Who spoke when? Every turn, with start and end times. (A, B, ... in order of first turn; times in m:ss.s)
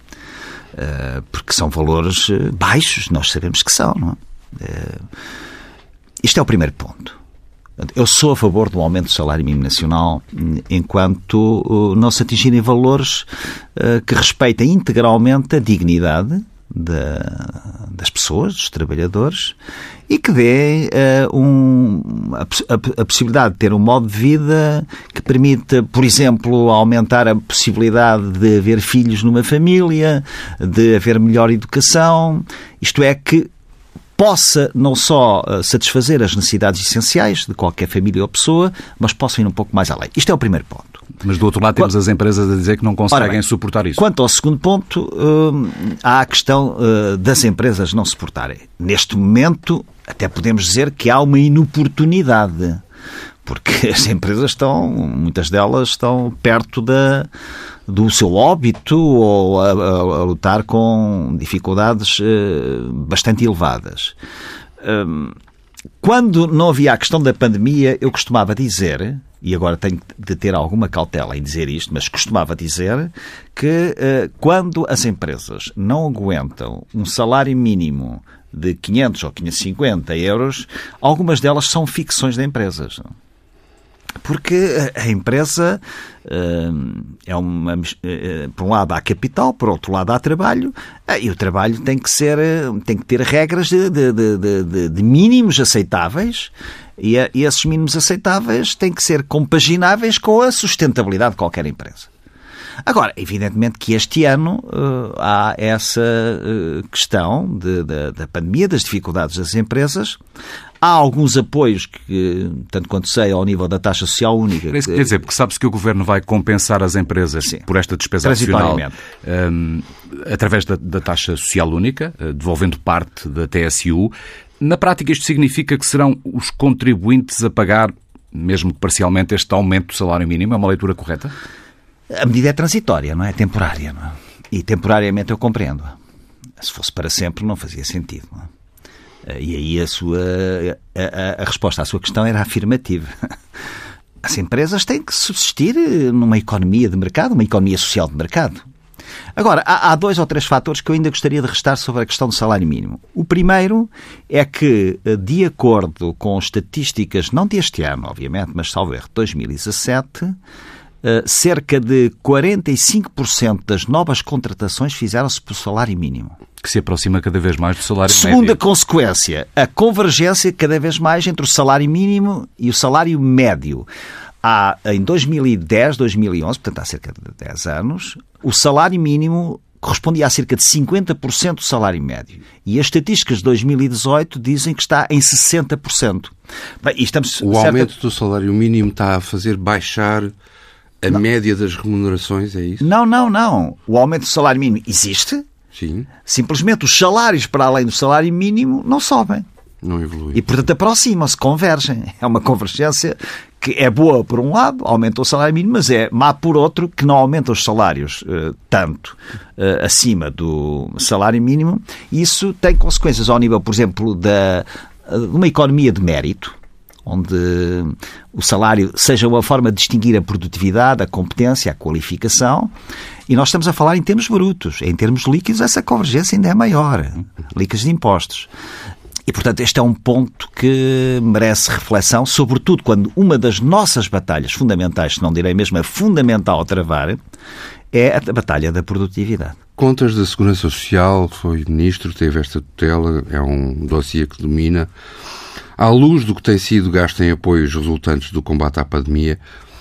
0:00.7-0:05.1 A
0:06.2-0:07.2 A
0:07.8-0:19.6 A
0:20.1-0:33.5 A
0:34.2-0:41.0 A
0:41.2-0:44.0 B
0:43.1-0:43.4 A
0:44.0-0:52.8 A
0:53.4-0:57.3 A
0:57.9-1:04.2 A
1:04.8-1:05.4 A
1:06.0-1:23.1 A
1:24.2-1:42.1 A
1:42.8-1:50.2 A
1:50.8-1:55.1 A
1:54.7-2:11.3 B
1:58.2-1:59.0 A
2:12.1-2:16.0 A
2:16.6-2:18.5 A
2:19.2-2:23.4 A
2:24.2-2:28.6 A
2:29.4-2:40.4 A
2:41.0-2:46.4 A
2:46.6-2:48.6 B
2:48.1-2:53.9 A
2:54.4-3:07.9 A
3:07.4-3:10.3 C
3:11.0-3:12.9 C
3:12.8-3:15.4 A
3:15.7-3:16.1 C
3:16.2-3:19.4 A
3:19.8-3:20.4 C
3:20.4-3:42.7 A
3:43.3-3:48.5 A
3:49.3-3:57.2 A
3:57.9-3:59.6 A
3:59.8-4:04.9 C
4:05.8-4:09.4 C